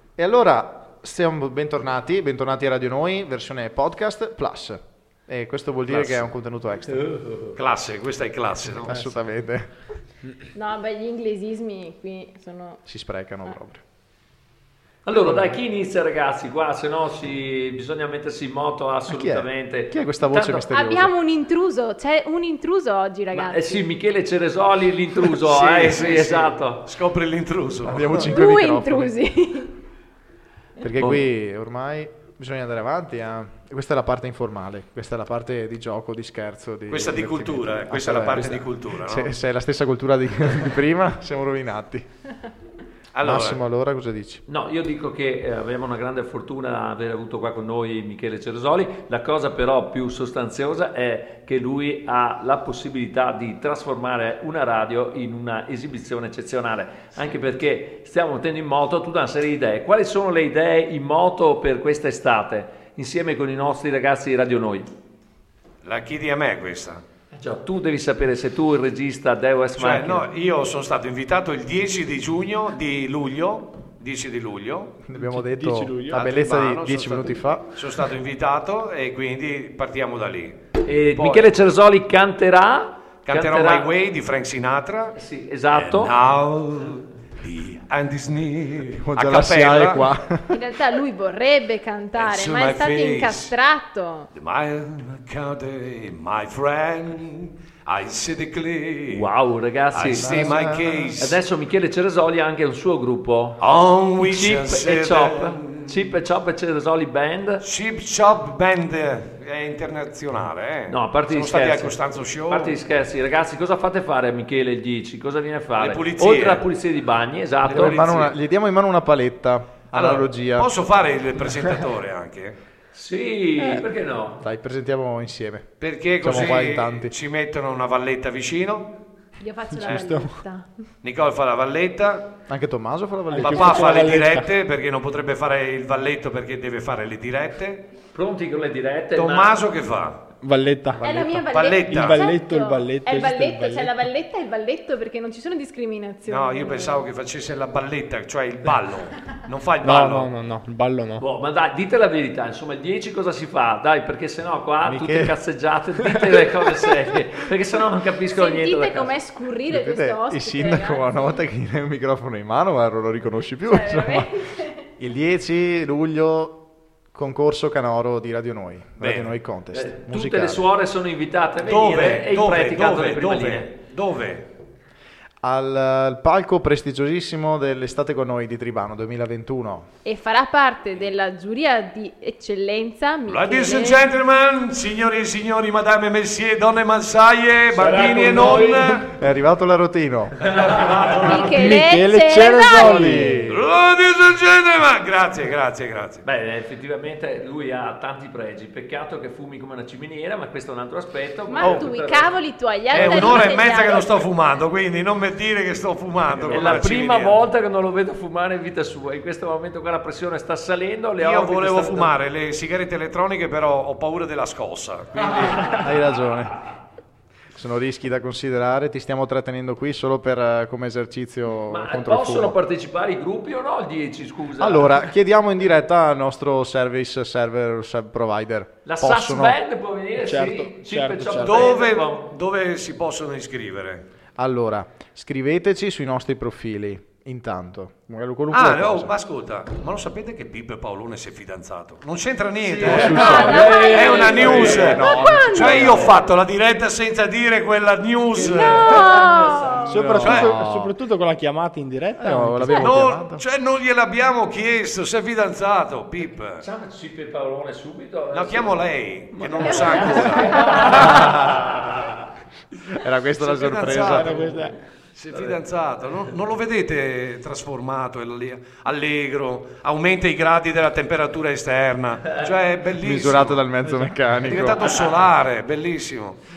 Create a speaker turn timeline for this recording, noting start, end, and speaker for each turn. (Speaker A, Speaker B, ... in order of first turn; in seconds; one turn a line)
Speaker A: 0.2-7.0
Speaker B: 5.9-6.2
Speaker C: 6.9-7.6
Speaker B: 7.5-9.0
Speaker A: 8.8-9.7
Speaker D: 10.5-12.8
Speaker A: 12.8-13.8
Speaker C: 15.0-20.7
Speaker A: 15.2-15.6
Speaker A: 19.1-21.1
Speaker D: 20.7-23.9
Speaker C: 23.3-26.8
Speaker B: 25.3-28.3
Speaker A: 27.8-29.1
Speaker D: 28.2-29.7
Speaker A: 30.8-42.0
Speaker C: 31.0-31.2
Speaker B: 36.9-39.3
Speaker B: 43.1-43.6
Speaker A: 43.2-44.4
Speaker C: 44.5-64.9
Speaker B: 65.8-67.0
Speaker C: 67.3-70.2
Speaker B: 69.8-75.1
Speaker A: 75.0-77.7
Speaker E: 75.1-76.2
Speaker B: 76.1-81.5
Speaker C: 80.8-83.9
Speaker B: 83.2-85.2
Speaker C: 85.2-86.1
Speaker B: 85.7-90.0
Speaker A: 89.0-90.6
Speaker D: 90.5-94.3
Speaker B: 92.2-93.5
Speaker B: 94.3-99.3
Speaker C: 99.1-100.6
Speaker B: 99.9-101.4
Speaker A: 100.1-101.1
Speaker C: 101.2-103.6
Speaker B: 103.6-106.2
Speaker C: 104.2-107.6
Speaker B: 107.6-112.8
Speaker C: 110.9-118.2
Speaker B: 115.8-116.6
Speaker B: 117.6-118.3
Speaker A: 117.7-120.7
Speaker B: 119.9-122.6
Speaker C: 122.9-124.4
Speaker A: 124.4-125.7
Speaker B: 125.8-128.9
Speaker A: 126.2-127.1
Speaker E: 126.3-126.5
Speaker D: 129.4-130.7
Speaker E: 129.8-130.4
Speaker B: 131.0-132.3
Speaker A: 132.5-134.1
Speaker E: 133.3-134.5
Speaker B: 133.4-137.9
Speaker C: 138.1-139.7
Speaker B: 139.1-140.2
Speaker E: 140.4-144.0
Speaker D: 141.0-147.1
Speaker B: 141.5-142.2
Speaker B: 146.3-150.3
Speaker E: 149.8-151.2
Speaker C: 151.2-159.1
Speaker A: 154.8-155.4
Speaker D: 158.3-161.3
Speaker A: 159.7-164.3
Speaker D: 163.7-164.8
Speaker A: 165.0-166.6
Speaker A: 167.1-170.7
Speaker B: 169.0-169.3
Speaker C: 169.7-173.7
Speaker B: 171.6-174.5
Speaker A: 175.4-179.9
Speaker D: 180.0-184.1
Speaker B: 183.3-189.1
Speaker C: 187.7-189.0
Speaker A: 189.1-190.4
Speaker C: 190.4-191.4
Speaker B: 190.5-191.7
Speaker D: 191.2-193.2
Speaker E: 191.4-193.5
Speaker A: 192.7-193.6
Speaker B: 193.5-196.2
Speaker C: 196.2-202.3
Speaker D: 201.5-204.2
Speaker B: 202.9-207.4
Speaker C: 202.9-203.4
Speaker C: 206.4-212.1
Speaker B: 211.2-215.7
Speaker C: 215.2-216.1
Speaker A: 215.7-216.6
Speaker A: 217.5-222.6
Speaker C: 221.7-225.0
Speaker A: 224.6-229.6
Speaker C: 228.8-232.3
Speaker E: 230.2-231.7
Speaker B: 231.4-234.0
Speaker A: 234.4-239.1
Speaker B: 238.5-249.1
Speaker A: 242.6-246.1
Speaker C: 242.9-245.1
Speaker D: 243.1-246.1
Speaker C: 248.3-249.9
Speaker A: 248.4-248.9
Speaker D: 248.5-250.0
Speaker E: 249.9-252.8
Speaker A: 249.9-250.9
Speaker B: 250.2-250.6
Speaker A: 252.2-253.4
Speaker D: 252.6-252.9
Speaker B: 252.8-256.6
Speaker C: 256.6-258.9
Speaker B: 258.3-261.2
Speaker E: 259.3-261.3
Speaker D: 259.6-260.8
Speaker C: 259.6-261.9
Speaker A: 261.0-261.8
Speaker A: 262.9-264.4
Speaker B: 263.3-264.4
Speaker E: 264.0-264.8
Speaker C: 264.3-264.6
Speaker B: 265.1-273.7
Speaker C: 265.3-266.3
Speaker A: 273.0-274.8
Speaker E: 273.9-274.4
Speaker B: 274.4-276.4
Speaker C: 274.8-275.2